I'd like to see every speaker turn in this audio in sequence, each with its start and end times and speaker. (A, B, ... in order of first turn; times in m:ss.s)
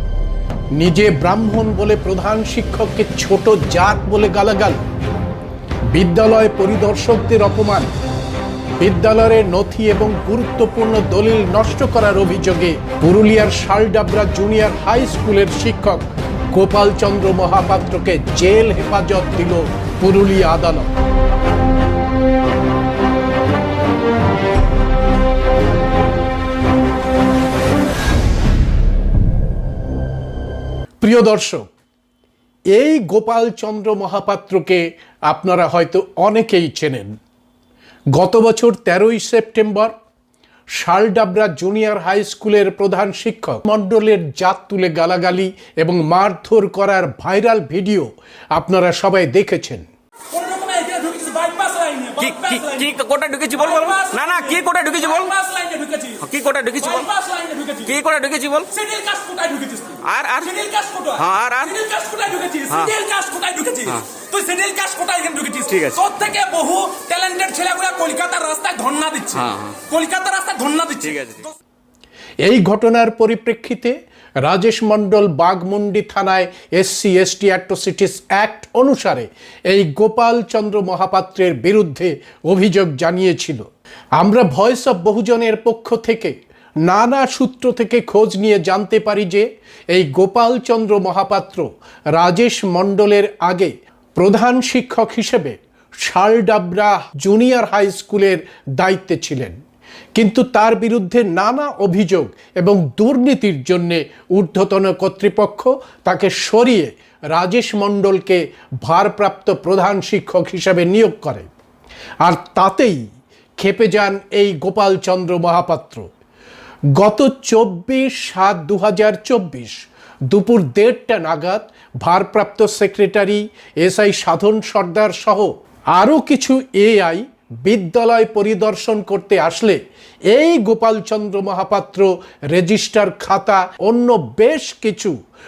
0:00.7-0:04.8 A
0:05.9-0:07.9 A
0:08.8-0:20.9 A
0:31.0-0:31.7 A
0:32.7-0:37.1 A
0:38.1-0:39.9 A
0:40.7-0:49.9 A
0:50.3-0:52.9 B
0:52.2-0:55.3 C
0:53.5-0:58.0 B
0:56.2-0:57.1 C
0:57.8-0:58.7 C
0:58.7-1:11.6 B
1:00.0-1:00.5 C
1:01.2-1:01.7 C
1:05.7-1:06.0 C
1:09.3-1:09.8 C
1:11.0-1:11.4 C
1:12.4-1:23.6 A
1:24.2-1:26.3 A
1:26.8-1:39.6 A
1:40.1-1:51.5 A
1:52.2-1:53.0 A
1:53.6-1:56.1 A
1:57.0-2:09.8 A
2:10.3-2:15.2 A